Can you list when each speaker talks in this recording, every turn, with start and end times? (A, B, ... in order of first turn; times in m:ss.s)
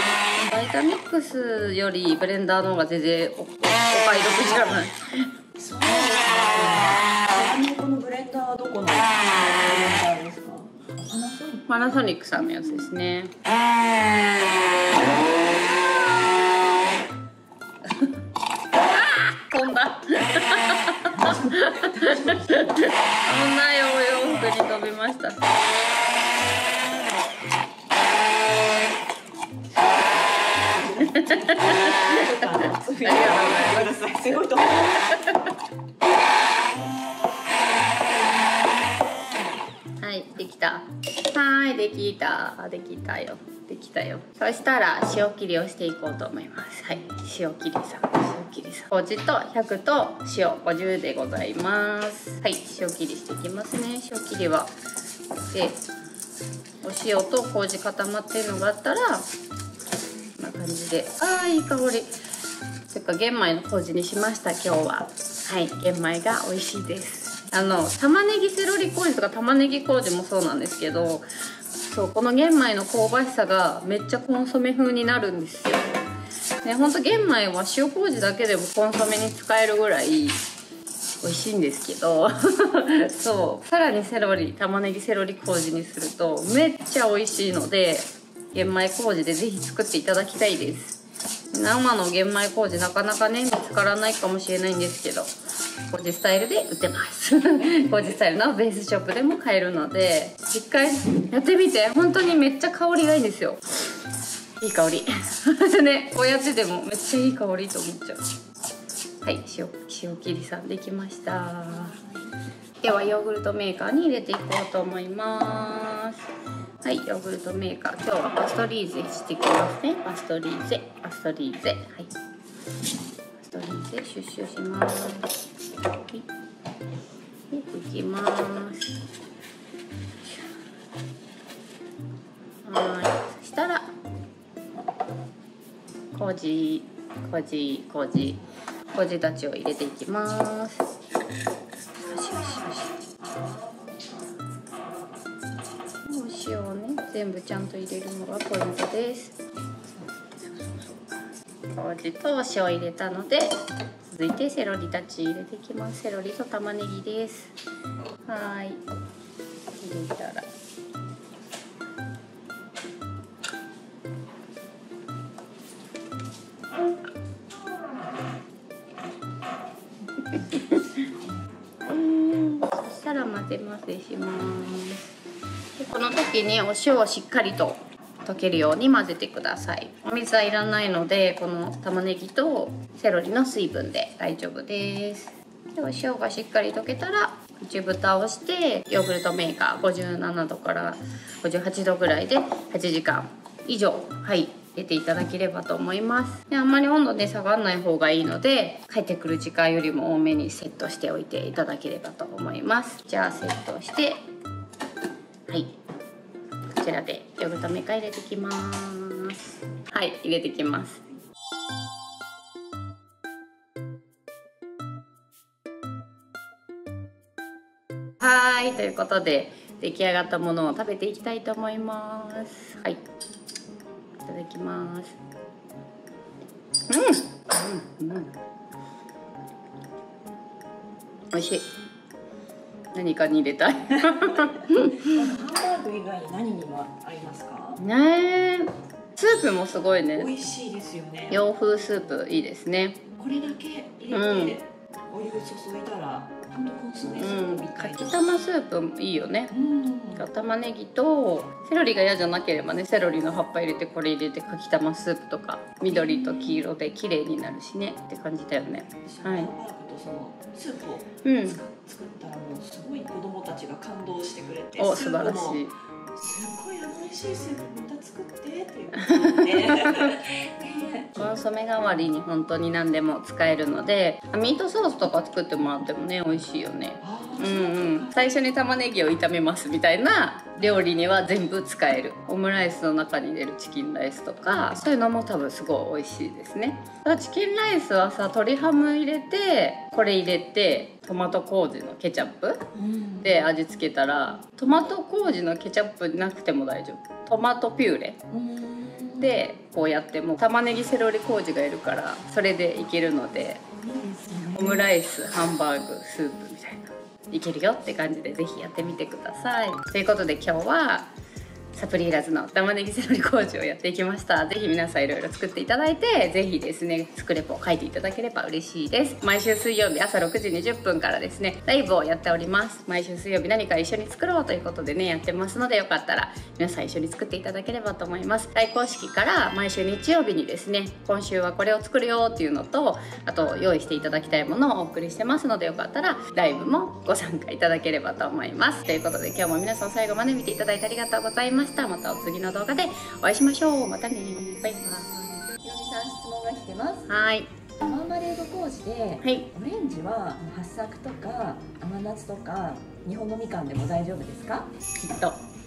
0:00.4-0:05.3 A
0:05.6-0:11.8 B
0:11.7-0:13.3 A
0:15.5-0:16.6 A
0:18.8-0:25.4 A
0:21.1-0:22.8 B
0:30.0-0:35.3 B
0:31.1-0:32.2 A
0:32.7-0:35.3 A
0:40.0-0:54.7 A
0:55.5-0:55.8 A
0:56.8-0:59.2 A
1:00.4-1:02.1 A
1:02.9-1:11.2 A
1:11.8-1:16.0 A
1:16.6-1:20.4 A
1:21.2-1:31.0 A
1:31.5-1:35.3 A
1:35.9-1:43.6 A
1:44.6-1:48.2 A
1:49.2-1:52.0 A
1:51.7-1:52.4 B
1:52.8-1:56.2 A
1:56.8-2:02.1 A
2:03.4-2:05.3 A
2:06.0-2:06.2 A
2:07.5-2:09.0 A
2:12.6-2:13.9 A
2:16.1-2:18.4 A
2:18.9-2:20.8 A
2:22.0-2:22.9 A
2:26.0-2:29.4 A
2:30.0-2:30.9 B
2:31.7-2:33.5 A
2:34.0-2:37.5 A
2:38.2-2:38.8 A
2:39.8-2:40.5 A
2:50.3-2:50.8 A
2:51.8-2:55.1 A
2:55.8-3:24.2 A
3:25.5-3:25.8 A
3:26.8-3:31.0 A
3:38.2-3:43.0 A
3:44.2-3:45.2 A
3:46.9-3:48.3 A
3:51.3-3:51.6 A
3:52.9-3:55.1 A
3:54.3-3:57.8 B
3:57.8-4:00.3 A
4:00.1-4:01.4 B
4:01.3-4:03.0 A
4:03.2-4:08.2 B
4:04.1-4:04.6 A
4:07.2-4:09.5 A
4:09.5-4:10.3 B
4:10.2-4:19.5 A
4:15.8-4:16.7 B
4:19.0-4:31.4 B
4:21.2-4:21.6 A
4:24.8-4:25.7 A
4:29.0-4:30.2 A
4:31.1-4:52.6 A
4:37.0-4:38.2 B
4:52.7-4:53.4 B
4:53.2-4:58.2 A
4:58.3-4:59.4 B
4:59.2-5:03.6 A
5:03.8-5:04.9 B
5:04.5-5:11.1 A
5:11.7-5:45.2 A
5:45.5-5:47.1 B
5:47.1-5:47.5 A
5:47.8-5:54.8 B
5:55.0-5:55.4 A